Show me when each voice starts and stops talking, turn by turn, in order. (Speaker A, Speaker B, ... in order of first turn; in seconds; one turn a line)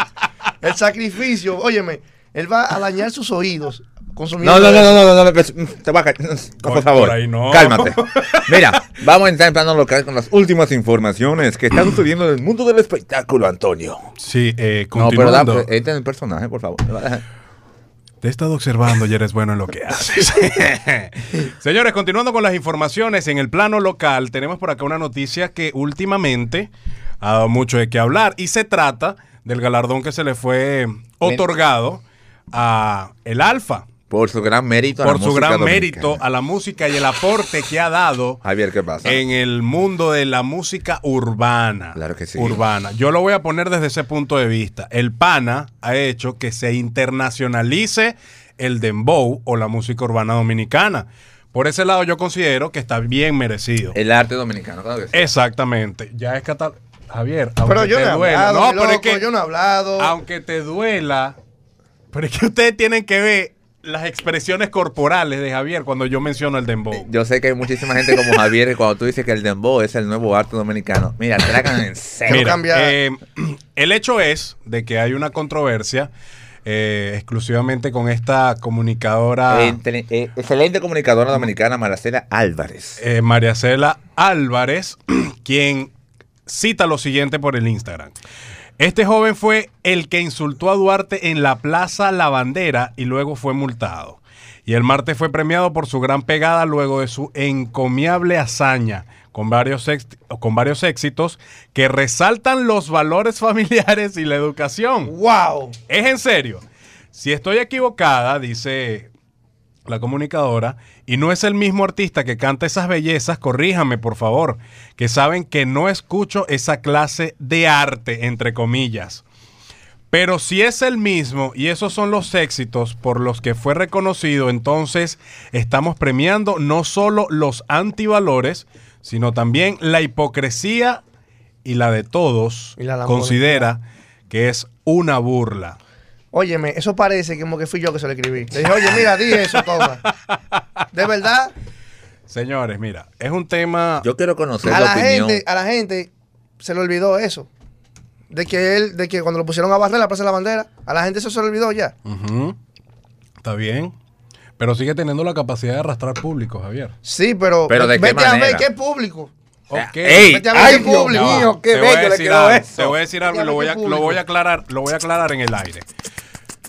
Speaker A: 0.6-5.1
Speaker B: 4.4-14.1
Speaker C: 6.6-8.8
Speaker C: 14.2-15.7
Speaker B: 14.9-17.2
Speaker C: 18.2-26.7
Speaker C: 27.2-33.9
Speaker B: 34.1-36.2
Speaker C: 35.0-38.4
Speaker B: 38.4-39.2
Speaker C: 39.0-54.0
Speaker B: 42.0-42.6
Speaker B: 53.9-55.3
Speaker C: 55.1-59.2
Speaker A: 57.6-60.1
Speaker C: 60.0-61.4
Speaker C: 62.1-67.1
Speaker B: 66.9-72.5
Speaker C: 68.1-68.4
Speaker A: 72.3-73.0
Speaker C: 72.3-76.1
Speaker C: 76.7-79.8
Speaker B: 79.5-83.0
Speaker C: 83.0-85.9
Speaker C: 86.5-88.2
Speaker C: 88.8-105.1
Speaker A: 105.0-105.8
Speaker C: 105.9-109.1
Speaker C: 109.9-119.2
Speaker C: 120.1-131.0
Speaker C: 131.6-135.8
Speaker A: 132.8-133.7
Speaker A: 136.3-140.0
Speaker C: 138.9-139.7
Speaker C: 140.3-140.6
Speaker A: 140.9-141.5
Speaker C: 142.3-144.1
Speaker B: 144.0-145.4
Speaker A: 144.7-147.5
Speaker A: 148.3-151.9
Speaker C: 152.1-152.6
Speaker C: 153.4-153.9
Speaker C: 154.6-156.9
Speaker A: 157.0-159.3
Speaker B: 157.7-158.7
Speaker C: 159.7-165.8
Speaker B: 159.8-163.0
Speaker A: 160.2-161.6
Speaker A: 163.3-164.2